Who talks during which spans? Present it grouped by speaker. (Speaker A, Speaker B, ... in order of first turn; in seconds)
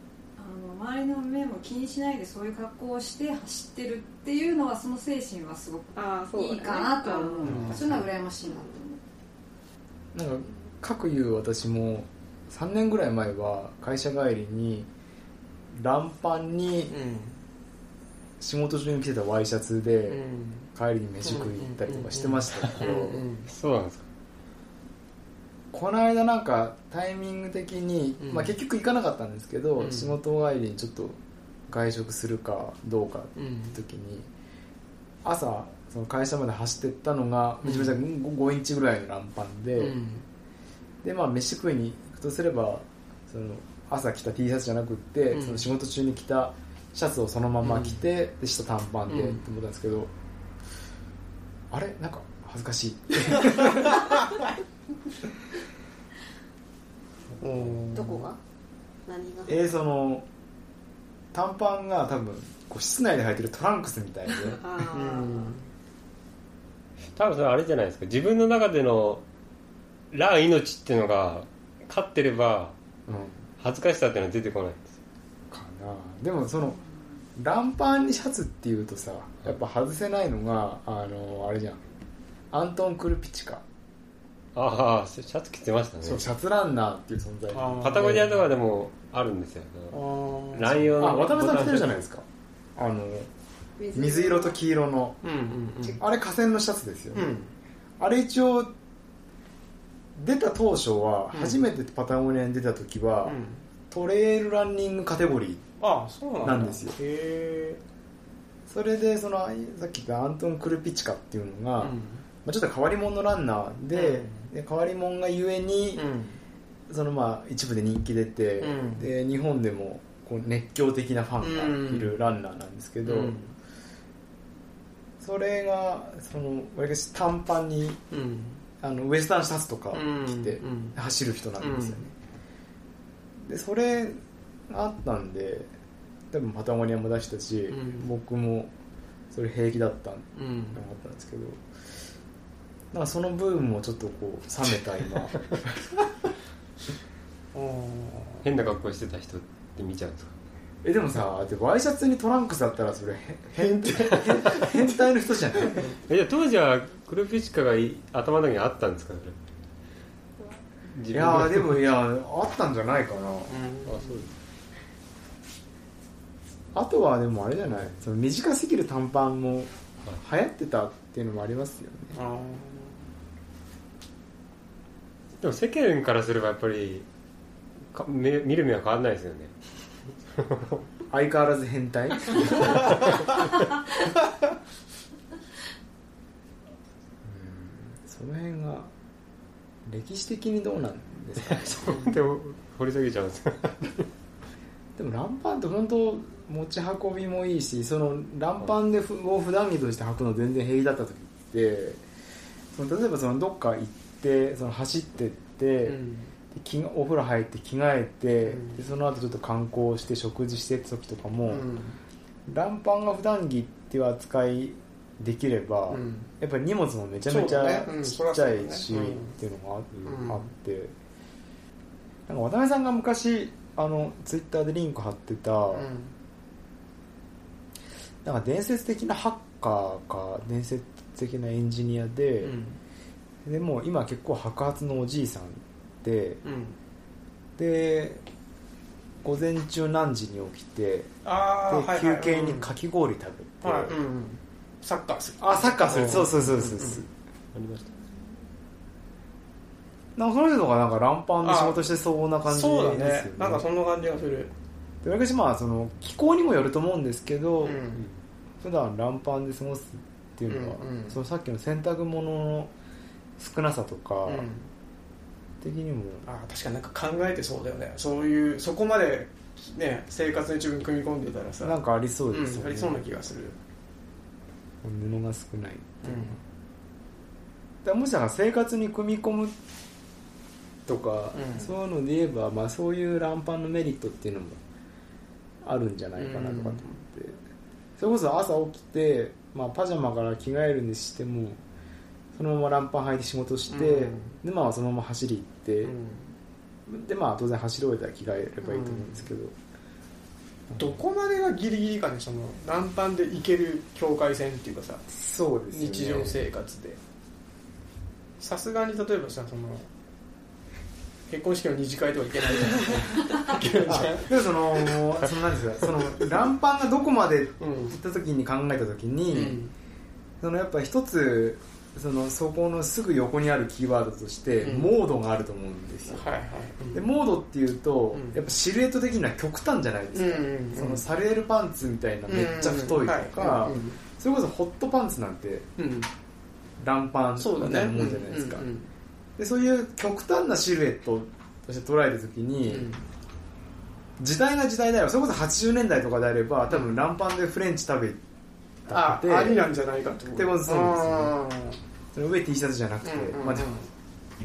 Speaker A: 0.4-9.0
Speaker B: 5.9-8.8, 58.0-58.4, 59.1-59.6, 64.4-65.6, 93.8-94.6
Speaker C: 7.4-8.0, 16.9-17.4, 20.1-20.7, 21.2-23.5, 28.2-28.5, 29.8-30.1, 33.4-33.8, 37.6-38.0, 39.8-40.2, 45.3-45.7, 47.6-48.0, 49.1-49.4, 57.4-58.3, 64.9-65.7, 87.5-88.3, 89.9-90.9, 95.2-96.0, 97.1-97.5, 101.3-101.7, 103.2-103.7, 105.8-107.8, 111.8-112.2, 113.9-114.5, 116.0-116.4, 118.6-119.1, 121.4-122.2, 123.0-123.5, 128.1-128.6, 129.9-131.0, 131.6-132.0, 137.7-138.1, 140.4-140.8, 147.5-148.4, 153.8-154.7, 163.5-164.2, 172.1-173.0, 205.8-206.3, 208.4-208.8, 211.5-212.0, 215.9-216.3, 217.3-219.3, 220.1-220.4, 225.7-226.1, 232.4-232.8, 236.4-236.8, 241.2-242.7, 243.6-247.0, 251.4-251.9, 252.5-254.5, 257.6-258.1, 260.5-261.2, 264.3-264.7, 266.2-271.8, 272.3-273.6, 276.1-276.4, 281.3-281.7, 286.2-287.0, 293.7-294.4, 295.8-296.3, 298.6-299.3, 300.8-305.1, 305.7-307.0, 308.4-309.9, 311.3-315.1, 317.6-318.0, 319.3-319.7, 324.6-324.9, 326.1-327.0, 330.1-331.0, 332.3-334.0, 335.8-336.1, 337.4-338.9, 342.7-343.1, 346.7-347.0, 348.9-351.8, 353.0-353.9
Speaker D: 7.5-7.8, 10.1-14.9, 15.7-17.0, 18.4-20.2, 20.8-23.2, 25.7-34.3, 35.2-40.0, 41.0-50.1, 51.7-54.0, 59.5-60.3, 61.3-64.6, 73.1-73.5, 75.5-76.8, 77.3-81.8, 82.5-83.6, 86.0-88.4, 91.0-93.3, 93.9-95.2, 96.0-97.3, 98.0-98.7, 100.2-103.4, 103.9-105.6, 106.4-107.0, 108.7-116.0, 116.9-123.4, 125.2-128.0, 128.8-132.1, 133.4-135.7, 136.3-138.7, 139.3-141.6, 142.9-146.1, 150.8-155.9, 161.1-163.6, 166.7-172.2, 181.1-182.8, 187.2-188.9, 189.8-191.9, 195.0-202.0, 202.7-206.0, 206.5-211.7, 212.5-220.9, 222.3-225.9, 228.2-232.6, 233.4-236.4, 237.6-238.2, 239.2-241.1, 241.7-244.0, 245.4-247.1, 250.2-253.7, 255.0-257.8, 258.6-262.7, 263.4-264.5, 265.6-266.3, 271.6-273.0, 274.8-276.4, 277.8-279.6, 280.9-284.6, 285.6-287.4, 288.0-291.6, 292.4-295.9, 296.9-299.5, 305.1-306.5, 313.6-319.6, 320.4-326.3, 326.9-335.7, 336.8-338.7, 339.4-343.0, 344.2-348.2, 348.9-349.6, 350.3-351.4, 352.1-353.8
Speaker E: 23.5-24.1, 67.2-69.2, 70.1-72.8, 73.6-75.0, 84.5-86.3, 87.8-90.0, 90.5-92.0, 148.4-150.4, 154.0-154.3, 156.1-159.4, 160.9-161.8, 163.9-164.3, 175.4-177.1, 177.9-179.5, 180.3-180.8, 191.5-194.1, 247.5-247.9